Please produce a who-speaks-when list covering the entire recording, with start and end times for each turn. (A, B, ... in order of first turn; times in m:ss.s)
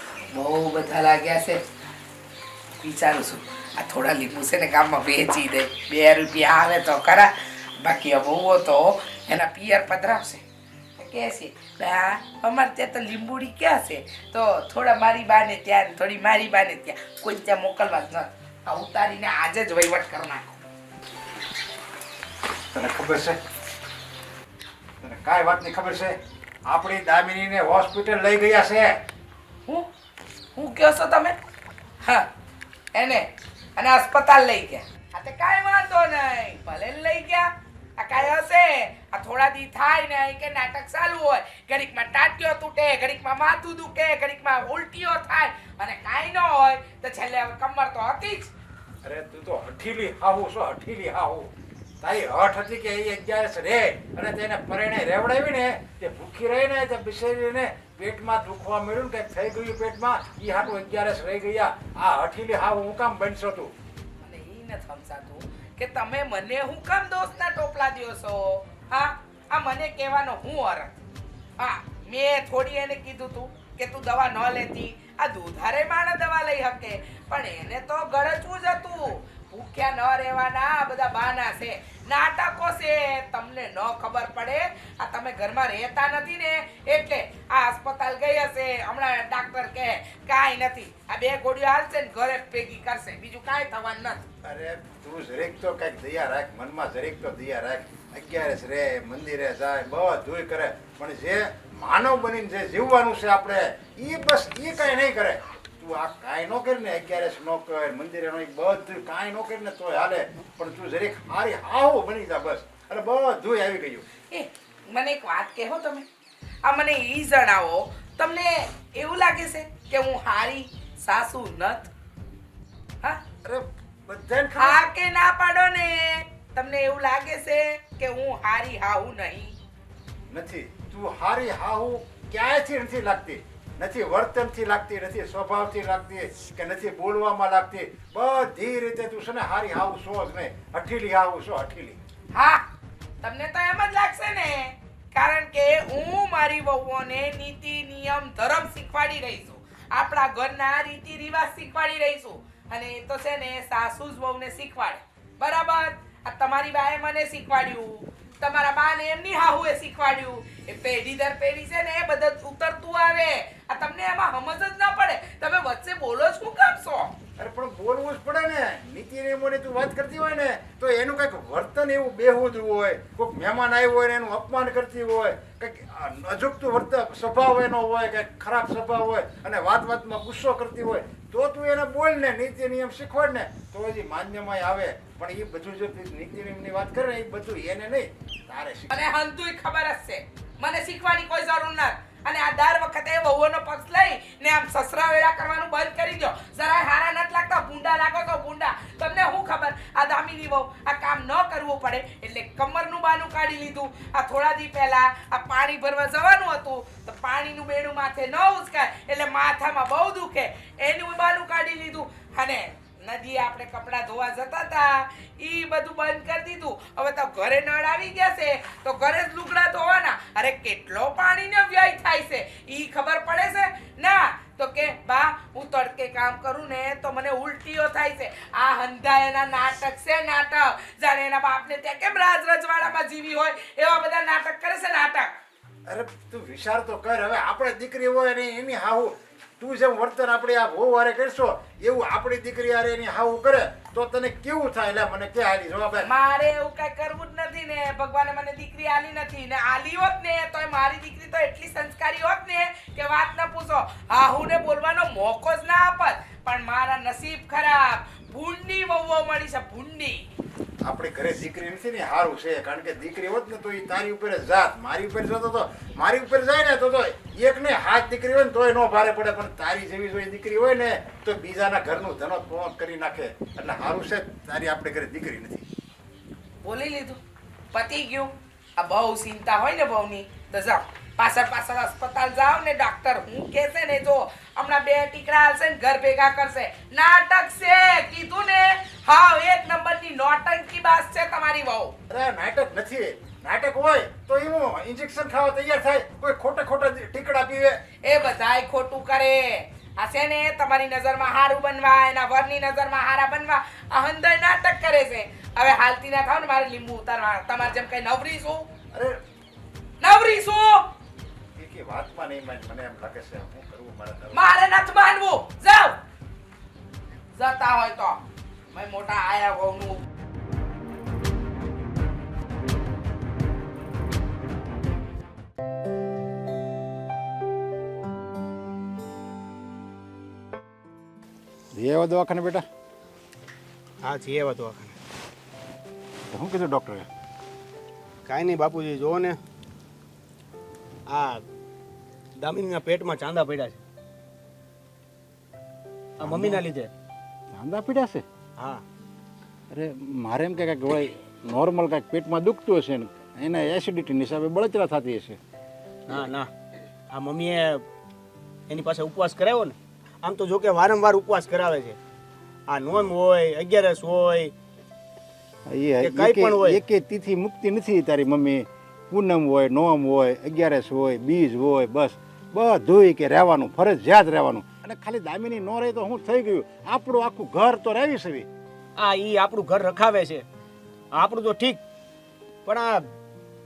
0:00.3-0:01.6 A
0:02.8-0:07.3 A
0:07.8-0:10.4 A
0:11.0-0:20.6 A
0:22.7-0:23.4 B
0:25.0-0:26.2 B
0:26.7-0:28.9 B
0:30.6-0:31.4 A
0:33.0-0:48.5 A
0:49.0-0:51.5 B
0:52.0-1:03.7 B
1:04.2-1:11.0 A
1:11.6-1:34.2 A
1:34.4-1:54.1 B
1:54.3-1:56.1 A
1:56.6-2:01.9 A
2:03.4-2:04.8 B
2:04.6-2:09.5 A
2:10.3-2:22.0 B
2:22.3-2:22.6 A
2:23.2-2:47.1 A
2:47.4-3:09.0 B
3:08.9-3:55.3 A
3:55.9-4:06.1 B
4:06.0-4:20.2 A
4:20.8-4:35.7 B
4:36.6-4:37.2 A
4:37.7-4:51.9 A
4:52.1-4:57.8 B
4:58.0-5:08.7 A
5:08.9-5:09.2 B
5:10.0-5:10.9 A
5:11.6-5:14.5 B
5:14.3-5:16.0 A
5:17.4-5:20.0 A
5:31.7-5:32.7 B
5:34.0-5:35.0 C
5:36.3-5:37.1 B
5:38.3-5:39.4 C
5:41.1-5:41.4 C
5:42.4-5:43.8 C
5:46.2-5:46.9 C
5:46.2-5:46.6 B
5:47.5-5:48.2 B
5:48.6-5:48.8 C
5:49.7-5:55.4 B
5:56.1-5:56.5 C
5:57.1-5:57.8 C
5:58.7-6:02.0 C
6:02.7-6:04.5 C
6:05.7-6:18.5 B
6:06.0-6:06.8 C
6:19.0-6:20.4 C
6:21.1-6:21.8 C
6:22.6-6:23.0 C